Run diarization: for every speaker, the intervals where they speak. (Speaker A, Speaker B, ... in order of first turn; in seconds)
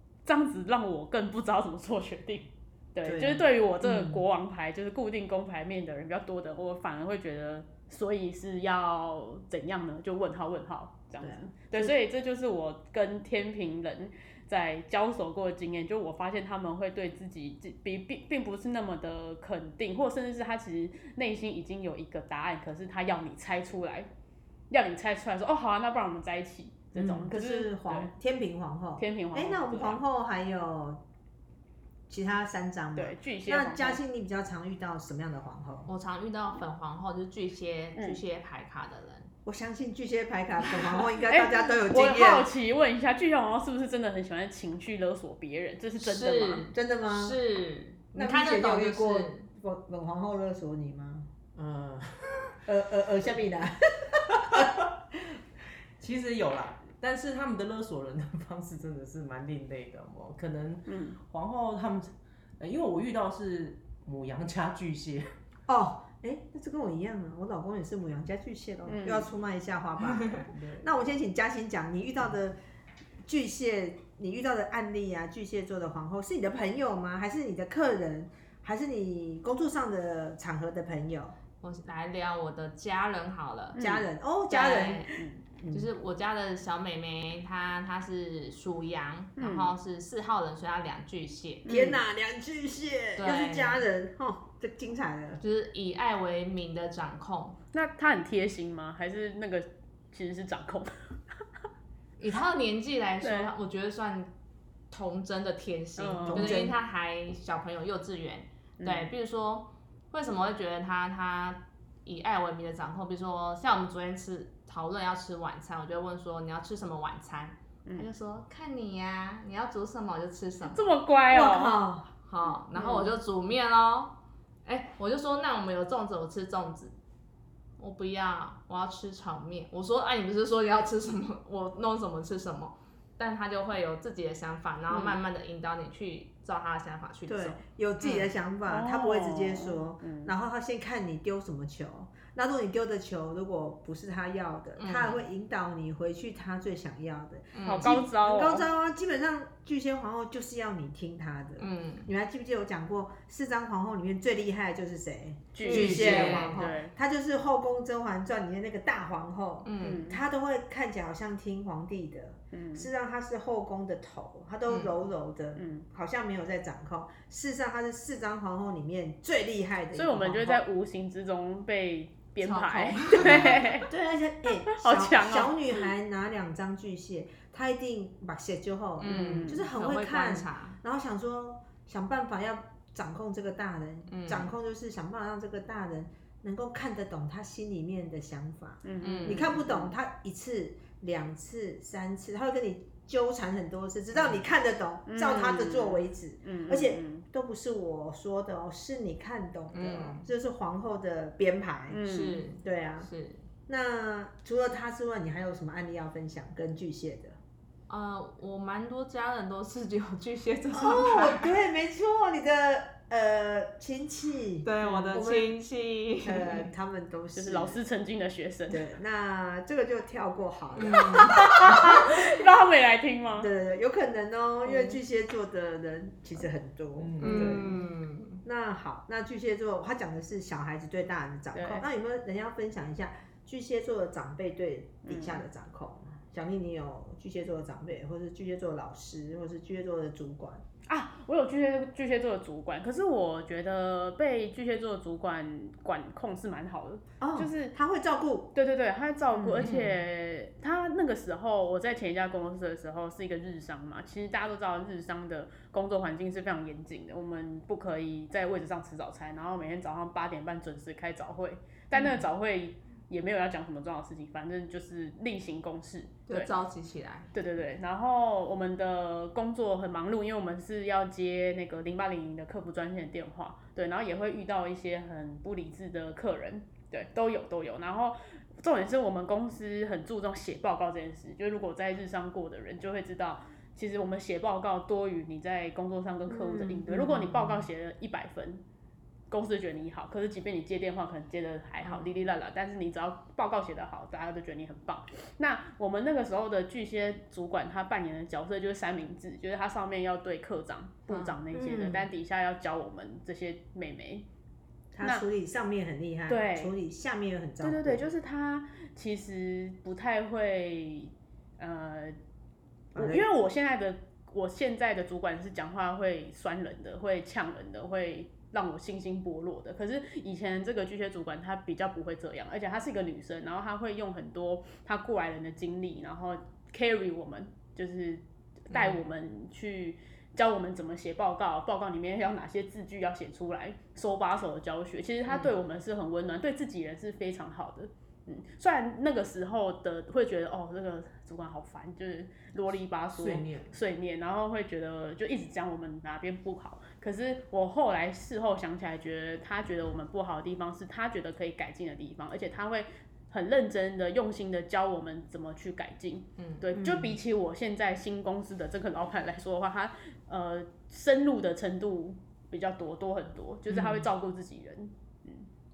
Speaker A: 0.2-24.1, 24.7-28.1, 29.0-30.0, 33.0-34.0, 41.3-46.6, 60.9-61.2, 68.8-69.3, 83.8-84.0, 85.2-85.4, 89.4-89.7, 91.6-92.0, 97.7-101.0, 103.2-103.5, 106.0-106.7, 108.8-109.1, 120.7-121.8, 122.7-123.1, 134.9-135.2, 138.7-140.3, 147.6-148.7, 155.5-156.9, 159.8-160.2, 162.5-162.9, 165.6-165.8, 169.9-173.9, 174.7-175.9, 179.0-179.7, 188.8-189.9, 195.1-197.2, 201.9-202.5, 214.8-215.1, 217.3-218.8, 221.1-223.5, 224.7-225.0, 231.5-231.8, 235.0-235.4, 240.9-247.7, 248.5-266.5, 267.3-288.6, 289.3-304.3, 306.3-306.7, 307.6-312.2, 312.9-365.4
Speaker B: 3.0-4.2, 11.2-11.9, 26.9-31.0, 32.1-35.9, 39.5-42.5, 46.7-47.4, 48.1-51.3, 52.6-54.7, 65.7-72.5, 73.2-81.3, 83.7-85.1, 85.6-85.9, 91.7-95.4, 106.3-106.8, 121.3-122.1, 137.3-170.6, 173.2-202.0, 202.6-203.1, 203.7-207.4, 210.7-215.6, 216.2-217.8, 218.7-222.3, 223.4-227.8, 228.4-240.6, 247.2-248.5, 249.3-249.8, 286.3-287.6, 301.5-302.1, 304.9-308.1, 312.9-313.2, 356.7-357.1
Speaker C: 35.9-39.3, 46.0-49.5, 70.2-70.4, 81.6-83.8, 84.5-91.8, 93.2-93.8, 95.4-97.6, 102.2-104.3, 104.9-121.0, 122.2-127.0, 127.8-138.3, 144.8-145.2, 147.5-148.0, 151.6-152.1, 155.6-156.7, 159.6-160.1, 164.7-164.9, 172.4-173.9, 179.0-180.8, 184.1-184.5, 189.0-189.7, 199.7-200.3, 202.0-203.5, 207.9-211.5, 214.6-216.7, 220.8-221.4, 227.2-228.4, 249.6-249.9, 261.9-262.2, 266.3-267.3, 301.1-301.4, 328.7-329.0, 356.4-356.6
Speaker D: 51.5-52.5, 56.0-65.3, 70.5-70.9, 155.7-156.4, 227.0-227.8, 343.1-343.8